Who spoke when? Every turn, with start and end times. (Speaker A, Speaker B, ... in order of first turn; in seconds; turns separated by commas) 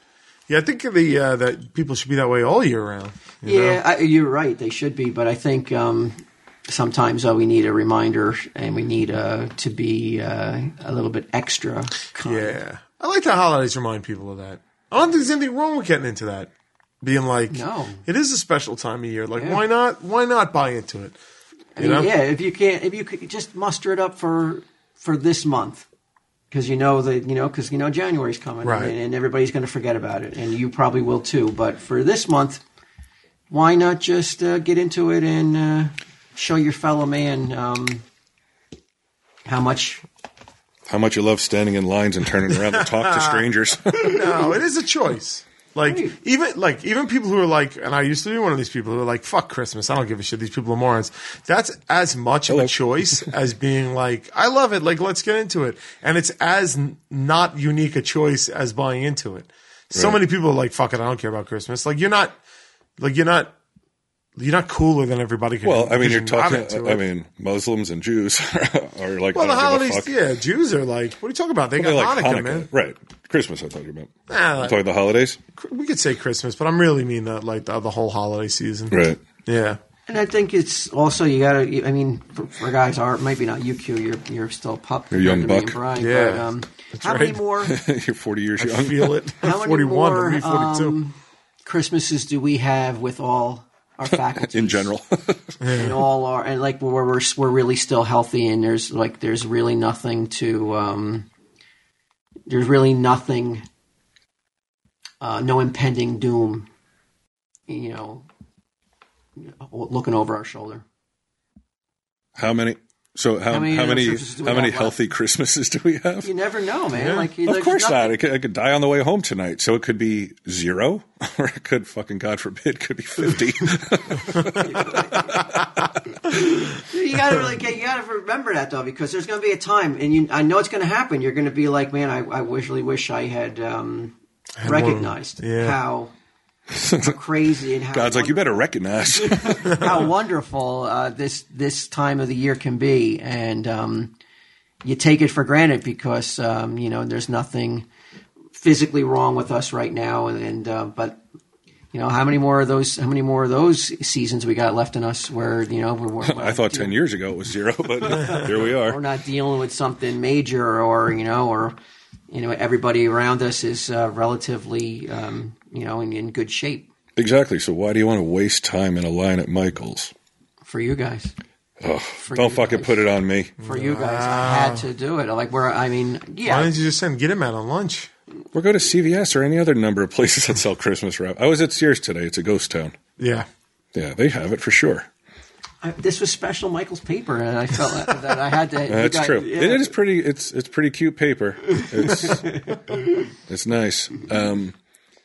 Speaker A: 0.5-3.8, Speaker B: 3.5-12.6, Speaker A: 12.2-21.2, Speaker B: 17.5-18.0, Speaker B: 21.8-25.9, Speaker A: 21.8-22.1, Speaker B: 26.5-32.6, Speaker A: 28.6-28.9, Speaker B: 33.5-38.0, Speaker B: 39.5-40.0, Speaker C: 40.9-44.4, Speaker A: 42.8-62.4, Speaker B: 45.9-46.2, Speaker C: 52.5-53.3, Speaker C: 59.9-60.2, Speaker A: 63.0-63.5, Speaker A: 64.4-67.0, Speaker C: 65.6-70.1, Speaker A: 69.3-72.7, Speaker C: 71.8-75.4, Speaker A: 74.3-74.8, Speaker A: 75.5-79.8, Speaker C: 78.9-79.2, Speaker B: 80.1-87.8, Speaker C: 85.1-85.8, Speaker A: 86.0-87.4, Speaker C: 87.6-89.2, Speaker A: 88.6-91.0, Speaker B: 89.4-94.9, Speaker C: 94.4-95.6, Speaker A: 95.6-96.0, Speaker B: 95.7-101.3, Speaker B: 102.5-103.7, Speaker B: 105.2-106.7, Speaker B: 107.7-108.3, Speaker B: 109.4-110.8, Speaker C: 112.4-116.3, Speaker B: 113.5-115.0, Speaker B: 116.2-118.2, Speaker A: 116.9-117.3, Speaker C: 117.4-125.5, Speaker B: 124.6-125.5, Speaker B: 126.2-136.1, Speaker A: 134.6-135.8, Speaker C: 136.7-137.2, Speaker B: 136.9-144.1, Speaker C: 137.9-140.0, Speaker B: 144.8-147.9, Speaker B: 148.5-151.2, Speaker B: 151.9-156.9, Speaker C: 156.2-159.0, Speaker B: 158.0-161.8, Speaker B: 162.3-166.9, Speaker C: 167.2-170.1, Speaker B: 170.6-171.3, Speaker C: 171.8-173.6, Speaker B: 172.2-173.0, Speaker A: 173.6-174.9, Speaker B: 173.6-176.7, Speaker A: 176.4-178.1, Speaker C: 178.5-182.9, Speaker A: 183.2-183.5, Speaker C: 183.9-185.1, Speaker B: 185.8-189.9, Speaker C: 188.9-192.6, Speaker B: 191.8-193.0, Speaker C: 193.5-194.8